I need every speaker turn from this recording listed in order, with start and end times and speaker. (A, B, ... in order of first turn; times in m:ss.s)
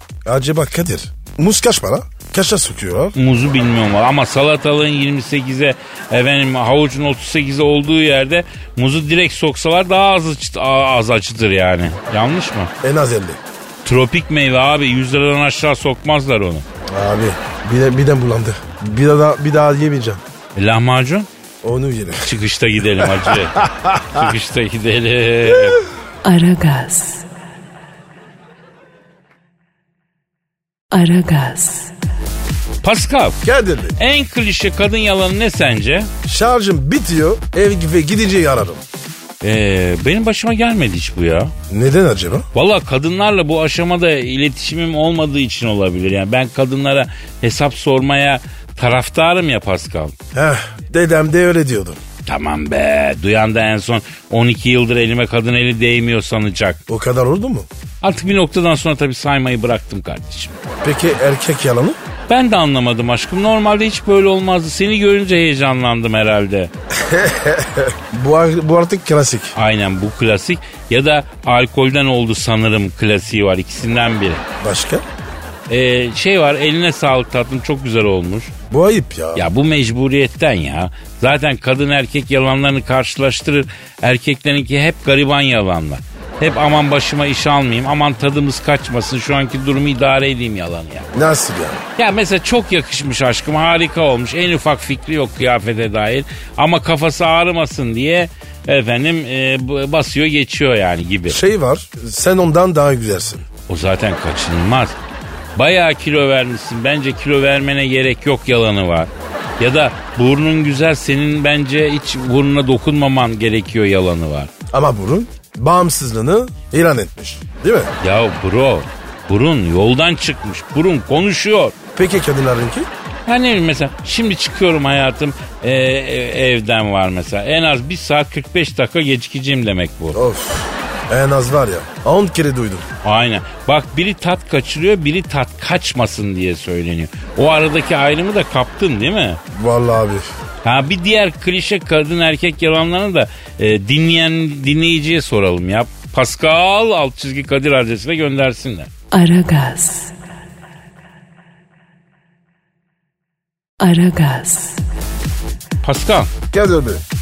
0:00.3-0:03.2 A
0:03.2-0:12.7 B
0:12.8-0:13.4 A
0:13.8-0:16.6 B
0:16.9-0:20.2 A
0:20.6-0:21.3 B
0:21.6-0:22.3 A
0:22.2-0:25.8 B
0:23.0-0:24.2 A
0:26.2-0:27.2 C
0:30.9-0:32.0 C
0:32.8-0:33.4 B
0:33.4-0:34.0 A
0:34.0-0:36.1 B
0:36.3-0:38.8 A
0:39.4-0:41.5 B
0:41.7-0:42.5 A
0:42.5-0:50.2 B
0:50.3-0:52.0 A
0:52.2-0:56.8 B
0:56.9-0:57.7 A
0:58.0-1:00.6 B
1:00.8-1:02.0 A
1:02.3-1:06.7 B
1:07.0-1:09.5 A
1:09.6-1:14.4 B
1:14.6-1:15.0 A
1:15.7-1:18.5 B
1:18.7-1:19.5 A
1:19.4-1:31.1 B
1:31.1-1:31.8 A
1:32.0-1:41.4 B
1:41.3-1:43.4 A
1:43.7-1:45.0 B
1:45.6-1:54.5 B
1:54.7-1:57.9 A
1:58.0-2:01.8 B
2:02.0-2:02.9 A
2:03.3-2:10.2 B
2:10.1-2:12.9 A
2:13.0-2:19.4 B
2:19.5-2:20.3 A
2:20.6-2:28.9 B
2:29.1-2:30.2 C
2:33.8-2:34.8 C
2:35.8-2:36.3 B
2:36.5-2:37.0 A